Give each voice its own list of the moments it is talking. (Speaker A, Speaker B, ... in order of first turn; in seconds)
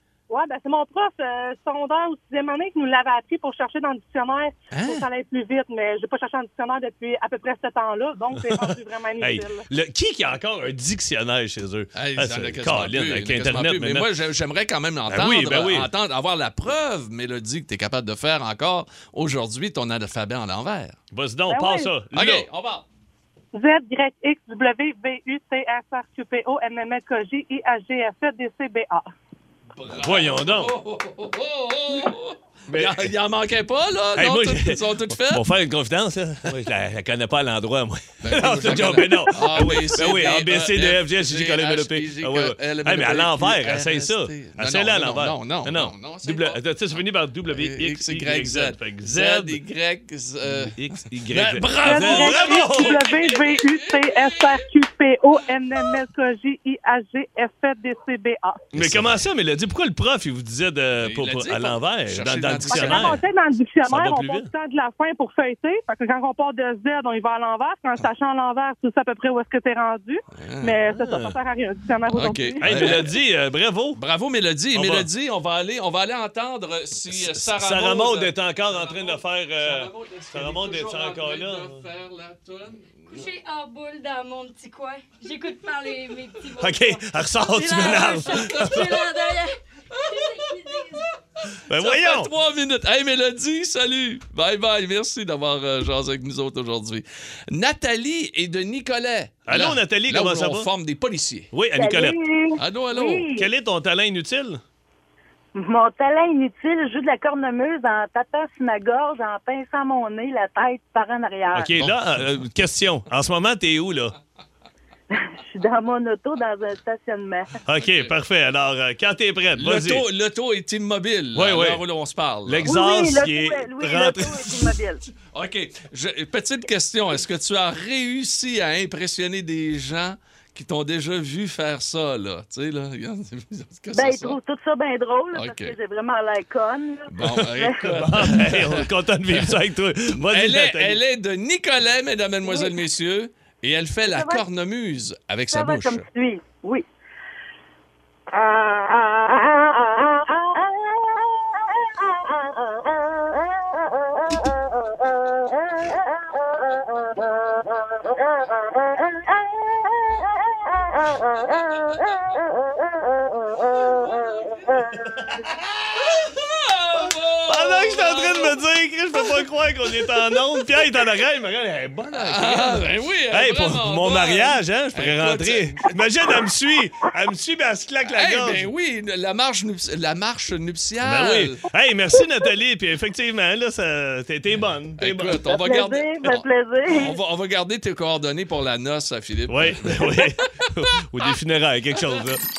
Speaker A: 0.3-9.6, 21.5-21.9, 23.5-29.1, 51.8-58.7, 62.7-73.1
Speaker B: 4.7-5.0, 11.9-21.0, 22.1-22.9, 29.8-35.5, 38.2-46.6, 47.5-54.6, 58.8-59.1, 61.0-63.2, 70.3-70.8, 72.1-73.1, 74.0-83.3, 87.9-89.1, 89.9-90.8, 91.6-101.5, 102.6-103.3, 117.8-118.1, 119.6-122.8, 125.3-134.4, 135.3-135.8, 137.1-139.6, 140.1-146.1, 164.0-164.6, 166.0-168.6, 172.1-176.4, 178.1-181.6, 185.0-190.7
Speaker C: 8.4-14.1, 15.1-15.9, 21.1-22.5, 29.9-30.7, 32.7-33.1, 34.2-49.6, 50.5-53.1, 58.7-63.2, 63.8-64.5, 70.9-71.4, 72.6-74.0, 74.7-75.1, 77.1-81.8, 86.6-89.0, 91.7-92.3, 99.5-100.7, 101.5-102.2, 103.3-104.6, 111.5-114.2, 117.7-120.0, 121.3-121.8, 122.5-124.7, 137.4-141.0, 167.5-178.7, 181.0-185.4, 189.5-192.4
Speaker D: 83.1-91.1
Speaker E: 101.8-102.2, 102.9-103.4, 105.5-111.7, 115.5-117.5, 122.7-125.0, 134.0-137.7, 145.6-146.8, 185.5-187.2